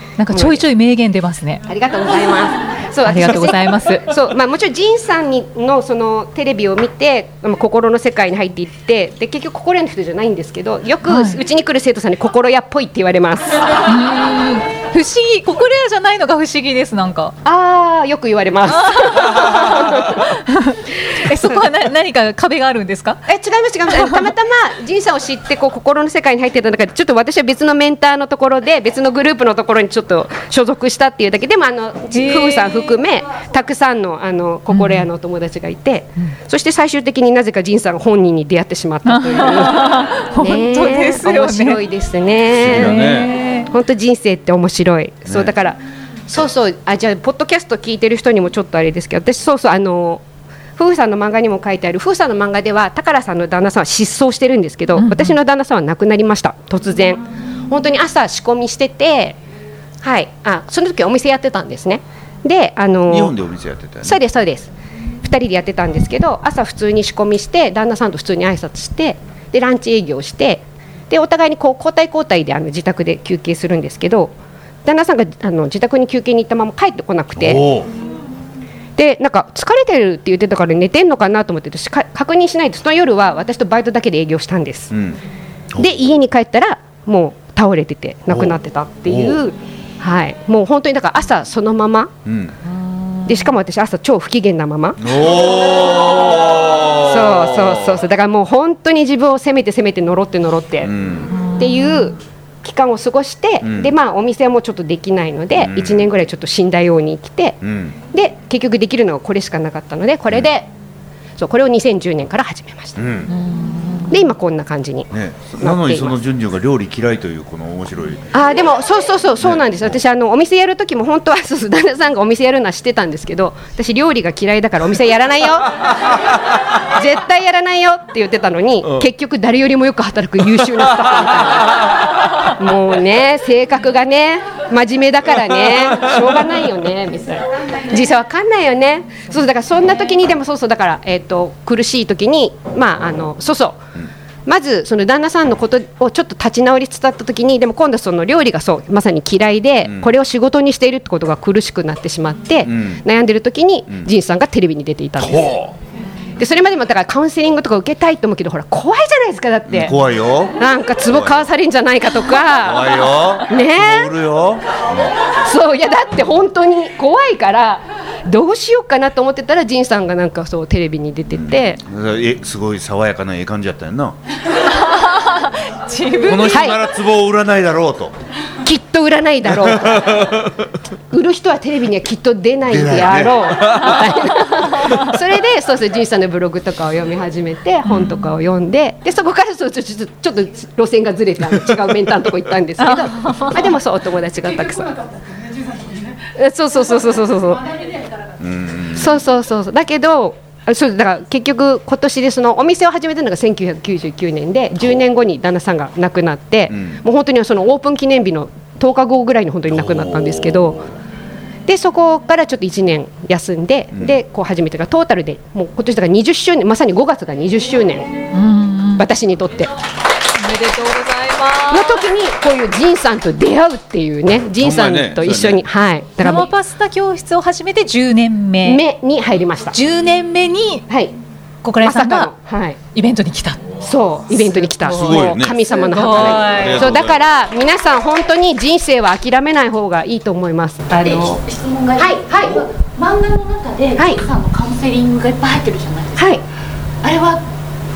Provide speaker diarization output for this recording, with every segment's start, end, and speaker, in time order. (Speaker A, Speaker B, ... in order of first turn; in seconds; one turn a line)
Speaker A: 0.2-1.6
Speaker B: 0.3-0.6
Speaker B: 1.7-13.7
Speaker A: 3.0-4.1
Speaker A: 11.1-11.4
Speaker A: 13.9-17.3
Speaker B: 17.4-20.3
Speaker A: 18.7-23.2
Speaker B: 21.3-21.6
Speaker B: 23.3-43.0
Speaker A: 23.9-24.3
Speaker A: 32.1-32.7
Speaker A: 34.7-35.0
Speaker A: 39.0-41.8
Speaker C: 42.5-43.3
Speaker A: 42.7-43.7
Speaker B: 43.7-50.2
Speaker C: 45.3-45.5
Speaker B: 50.8-59.4
Speaker A: 55.0-55.4
Speaker B: 60.0-63.3
Speaker C: 63.1-64.2
Speaker B: 64.0-64.7
Speaker B: 65.2-74.3
Speaker B: 74.8-77.6
Speaker C: 77.3-77.9
Speaker B: 79.0-84.9
Speaker C: 84.9-85.2
Speaker B: 85.8-92.1
Speaker C: 88.3-89.4
Speaker C: 92.2-92.5
Speaker B: 93.2-95.1
Speaker C: 95.0-98.0
Speaker B: 96.9-100.9
Speaker C: 100.8-101.3
Speaker A: 101.4-101.6
Speaker B: 101.6-107.6
Speaker C: 103.6-103.9
Speaker C: 105.5-106.1
Speaker C: 107.6-108.0
Speaker B: 108.1-110.7
Speaker B: 111.4-113.1
Speaker C: 113.0-113.3
Speaker A: 113.3-114.2
Speaker B: 114.1-115.1
Speaker C: 115.1-118.2
Speaker B: 115.6-116.1
Speaker B: 118.3-125.8
Speaker C: 119.4-119.9
Speaker B: 126.9-143.8
Speaker B: 144.4-155.5
Speaker C: 149.8-150.1
Speaker C: 152.6-153.0
Speaker C: 155.2-155.7
Speaker B: 156.4-159.9
Speaker C: 159.7-161.4
Speaker B: 160.6-164.1
Speaker C: 162.4-165.1
Speaker B: 165.4-171.8
Speaker C: 171.3-174.2
Speaker A: 174.7-176.7
Speaker C: 176.2-178.1
Speaker B: 176.5-176.8
Speaker B: 178.6-180.3
Speaker C: 179.5-180.7
Speaker B: 181.1-194.9
Speaker C: 182.7-184.2
Speaker A: 184.5-185.1
Speaker A: 187.9-188.3
Speaker A: 192.8-193.7
Speaker B: 196.3-197.7
Speaker C: 198.4-199.1
Speaker B: 198.9-210.8
Speaker C: 206.7-207.0
Speaker C: 209.7-210.8
Speaker B: 211.7-218.1
Speaker A: 218.3-219.1
Speaker B: 219.0-219.7
Speaker A: 220.4-222.0
Speaker B: 221.7-226.5
Speaker C: 224.5-225.6
Speaker A: 226.2-228.8
Speaker B: 228.6-229.8
Speaker A: 229.7-230.8
Speaker B: 230.9-231.1
Speaker A: 231.6-232.3
Speaker B: 231.8-232.8
Speaker A: 232.9-233.6
Speaker B: 233.8-241.4
Speaker A: 234.5-236.9
Speaker C: 234.8-237.2
Speaker D: 241.0-246.4
Speaker B: 242.0-242.6
Speaker B: 244.0-244.2
Speaker B: 246.2-246.4
Speaker D: 247.0-247.4